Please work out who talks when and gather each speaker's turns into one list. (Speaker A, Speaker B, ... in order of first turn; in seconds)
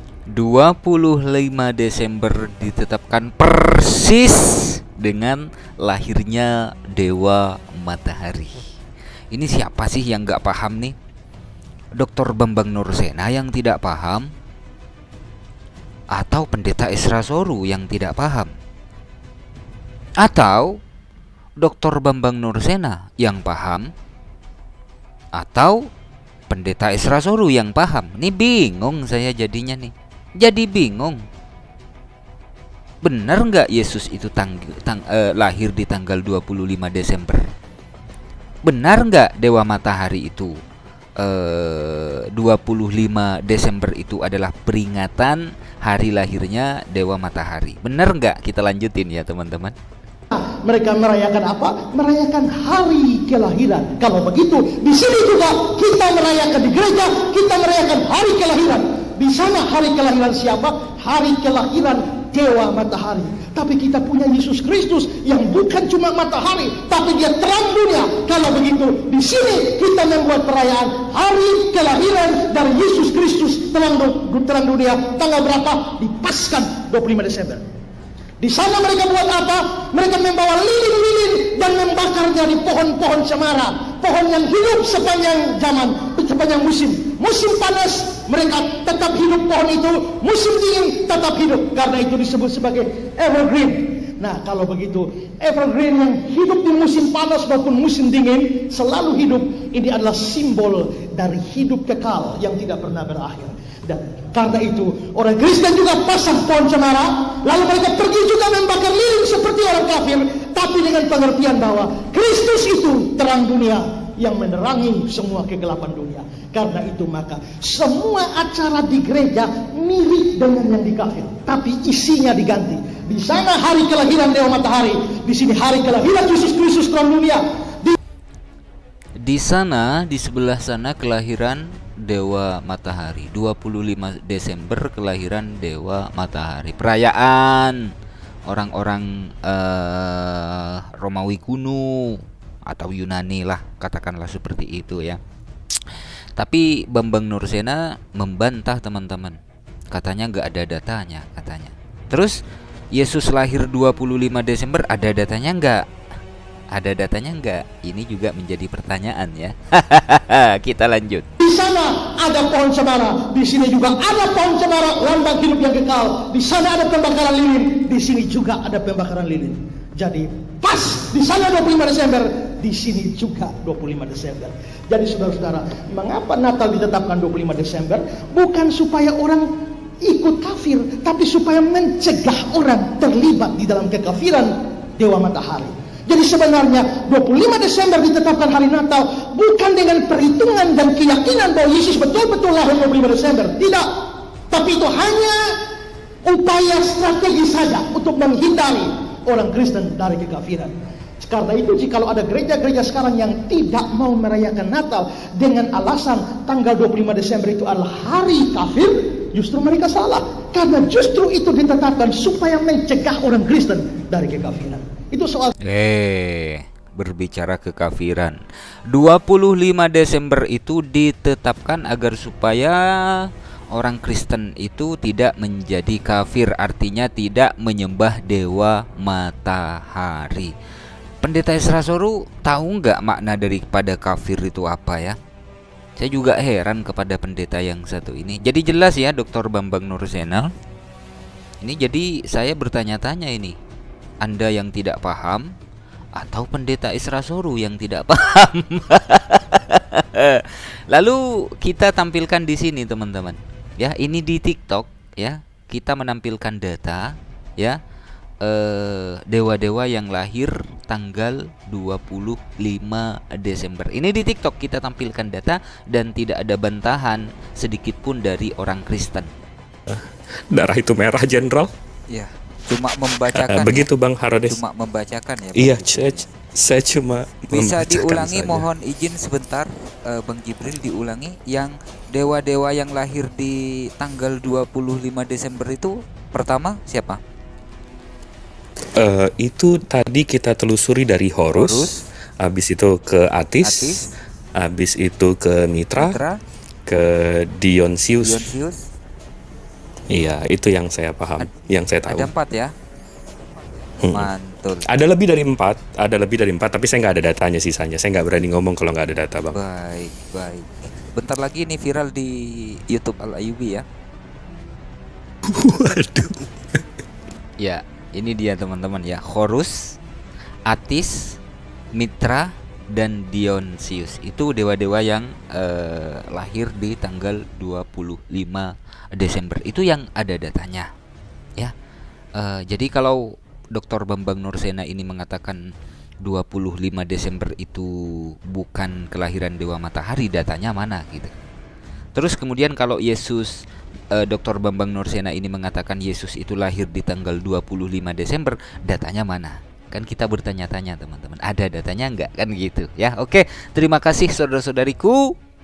Speaker A: 0.3-8.6, 9.3-10.9, 12.0-14.3, 16.1-18.5, 20.2-20.8, 21.6-23.9, 25.3-25.9, 26.5-31.2, 33.0-37.4, 38.6-40.5, 41.2-49.7, 129.2-137.8, 138.5-145.2, 146.4-149.4, 149.9-152.4, 152.9-155.8, 156.7-161.2, 215.6-230.5, 231.2-235.2, 236.0-240.5, 241.6-243.6, 244.2-245.5, 246.2-257.8, 258.4-269.3, 272.1-273.8, 274.5-276.0, 277.5-287.2, 291.6-291.9, 293.6-293.9, 296.0-296.3, 298.3-298.7, 302.1-302.7, 304.1-304.8, 309.5-312.3, 312.9-313.8, 317.6-319.9, 320.7-321.4, 321.9-330.9, 332.4-335.6, 336.2-341.3, 342.1-343.5, 344.1-355.3
Speaker B: 50.3-77.6, 78.4-128.0, 161.4-179.5, 180.0-193.9, 194.5-195.4, 196.2-215.5
Speaker C: 269.9-271.7, 273.3-274.6, 275.5-278.6, 288.9-291.9, 292.4-293.9, 294.6-296.2, 296.9-298.5, 300.1-302.3, 304.0-304.3, 304.9-309.6, 315.5-316.5